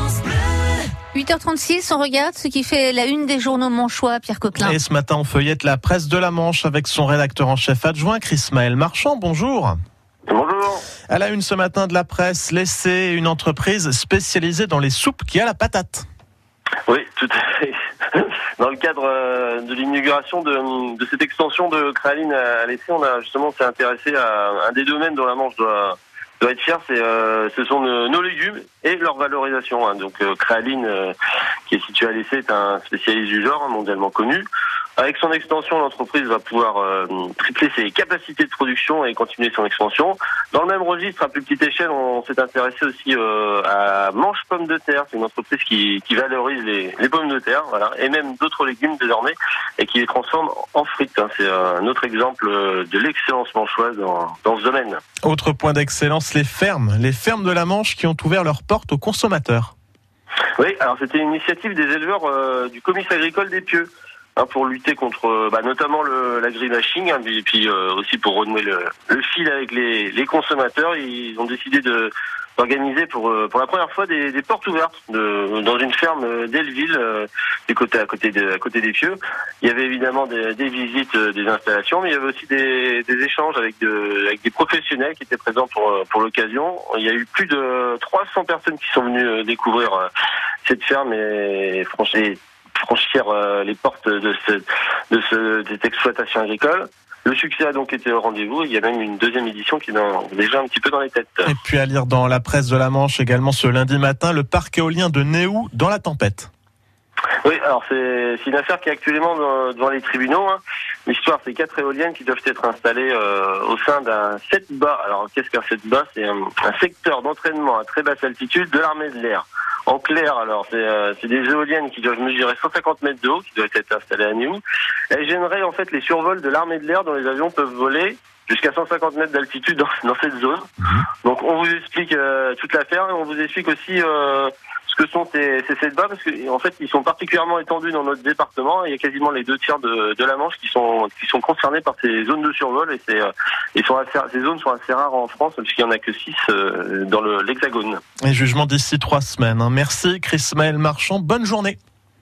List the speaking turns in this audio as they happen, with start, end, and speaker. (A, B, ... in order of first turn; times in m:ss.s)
0:01.1-0:04.8 A
0:04.6-0:09.8 B
0:10.3-0:10.8 C
0:11.1-0:16.0 B
0:16.9-0:31.1 C
0:31.7-0:34.4 C
0:35.0-0:55.0 C
0:55.2-0:59.7 B
1:00.6-1:30.1 C
1:30.6-1:41.5 C
1:41.4-1:46.5 B
1:47.4-2:10.7 C
2:11.2-2:28.0 C
2:28.2-2:31.8 B